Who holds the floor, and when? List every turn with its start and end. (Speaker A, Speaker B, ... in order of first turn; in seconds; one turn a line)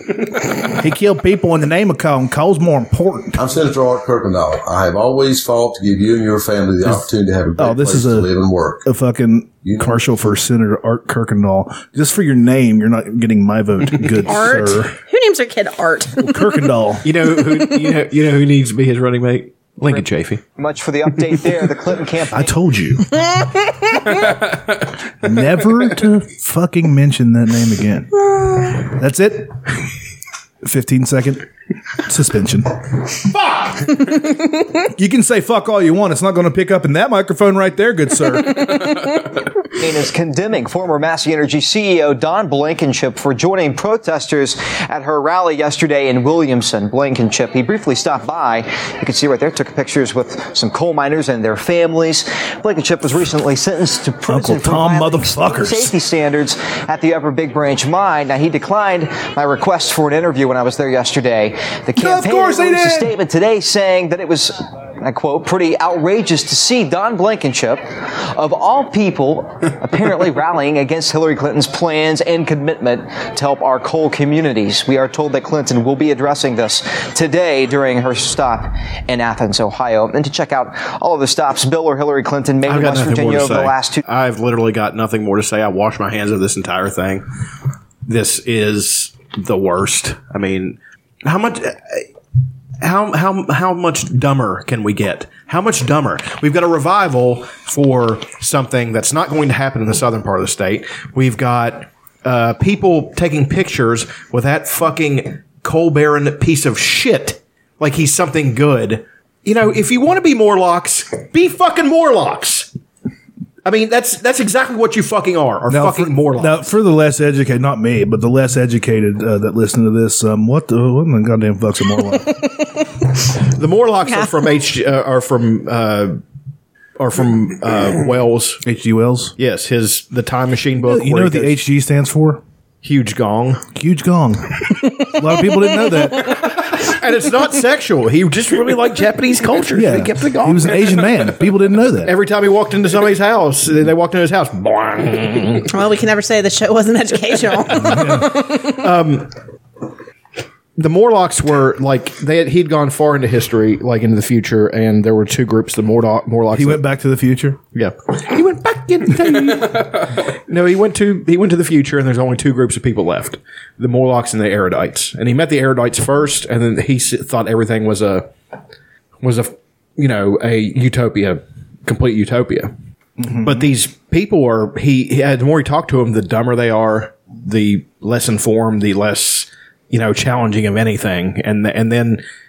Speaker A: 0.8-3.4
Speaker B: 3.4-8.8
Speaker A: 7.6-8.3
Speaker A: 8.8-14.9
Speaker B: 9.6-10.0
Speaker C: 14.2-16.4
Speaker A: 16.2-17.1
Speaker D: 17.0-20.4
Speaker E: 20.6-22.5
Speaker A: 22.3-23.1
Speaker A: 25.2-28.1
Speaker A: 28.8-29.6
Speaker A: 30.6-31.4
Speaker A: 32.0-32.7
Speaker A: 35.0-38.8
Speaker E: 39.8-84.0
Speaker A: 54.3-56.0
Speaker A: 62.0-63.1
Speaker D: 82.7-87.2
Speaker D: 88.1-92.1
Speaker D: 92.8-112.7
Speaker D: 113.7-116.7
Speaker A: 115.7-122.4
Speaker D: 123.5-126.2
Speaker D: 127.0-128.6
Speaker A: 128.6-129.3
Speaker D: 129.4-131.6
Speaker A: 130.8-132.4
Speaker D: 132.8-133.6
Speaker A: 133.8-136.4
Speaker D: 136.6-141.2
Speaker A: 139.7-142.2
Speaker D: 142.1-145.7
Speaker C: 145.7-148.8
Speaker A: 147.8-148.4
Speaker D: 147.8-149.3
Speaker D: 150.8-156.8
Speaker A: 156.5-157.6
Speaker D: 157.7-168.3
Speaker D: 169.2-172.7
Speaker A: 173.2-173.7
Speaker D: 173.3-182.2